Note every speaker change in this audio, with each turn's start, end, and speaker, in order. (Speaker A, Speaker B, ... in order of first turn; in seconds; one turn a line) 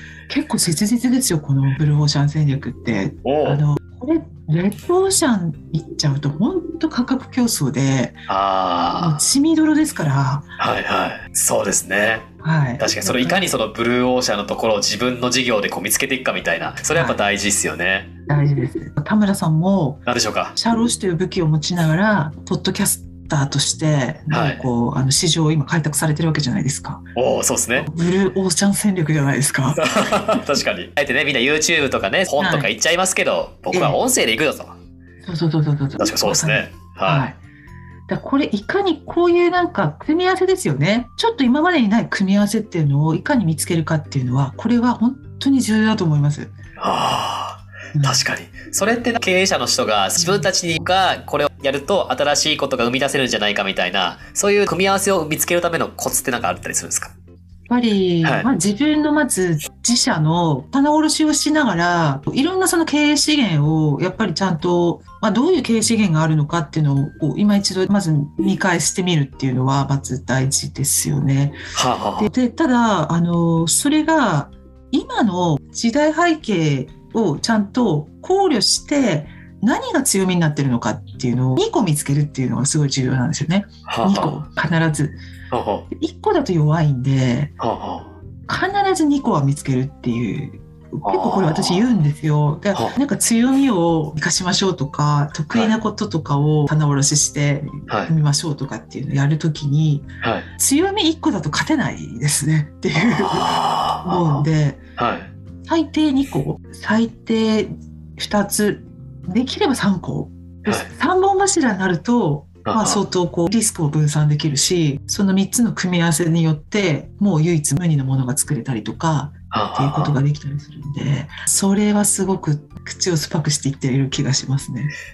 Speaker A: 0.3-8.2
Speaker B: 3.2-3.6
Speaker B: 8.3-9.2
Speaker A: 9.0-10.6
Speaker B: 10.6-12.3
Speaker A: 12.4-13.5
Speaker B: 12.8-18.1
Speaker A: 16.9-17.2
Speaker A: 18.3-20.0
Speaker B: 20.1-20.6
Speaker A: 20.6-27.0
Speaker B: 24.3-24.7
Speaker B: 27.1-27.9
Speaker A: 27.8-29.8
Speaker B: 29.8-34.7
Speaker A: 32.4-32.7
Speaker A: 33.7-34.0
Speaker A: 35.2-37.4
Speaker B: 36.0-37.3
Speaker A: 38.1-46.5
Speaker B: 46.8-57.1
Speaker A: 48.0-48.3
Speaker A: 50.2-50.5
Speaker A: 57.7-71.6
Speaker B: 58.2-58.5
Speaker B: 71.7-72.3
Speaker A: 72.2-85.2
Speaker B: 83.9-84.4
Speaker B: 85.5-85.9
Speaker A: 85.9-87.5
Speaker B: 87.6-88.1
Speaker A: 88.5-104.8
Speaker B: 91.0-91.9
Speaker B: 97.9-98.1
Speaker B: 100.2-100.5
Speaker B: 103.0-104.5
Speaker B: 105.0-105.3
Speaker A: 105.7-124.9
Speaker B: 112.7-113.0
Speaker B: 119.5-120.2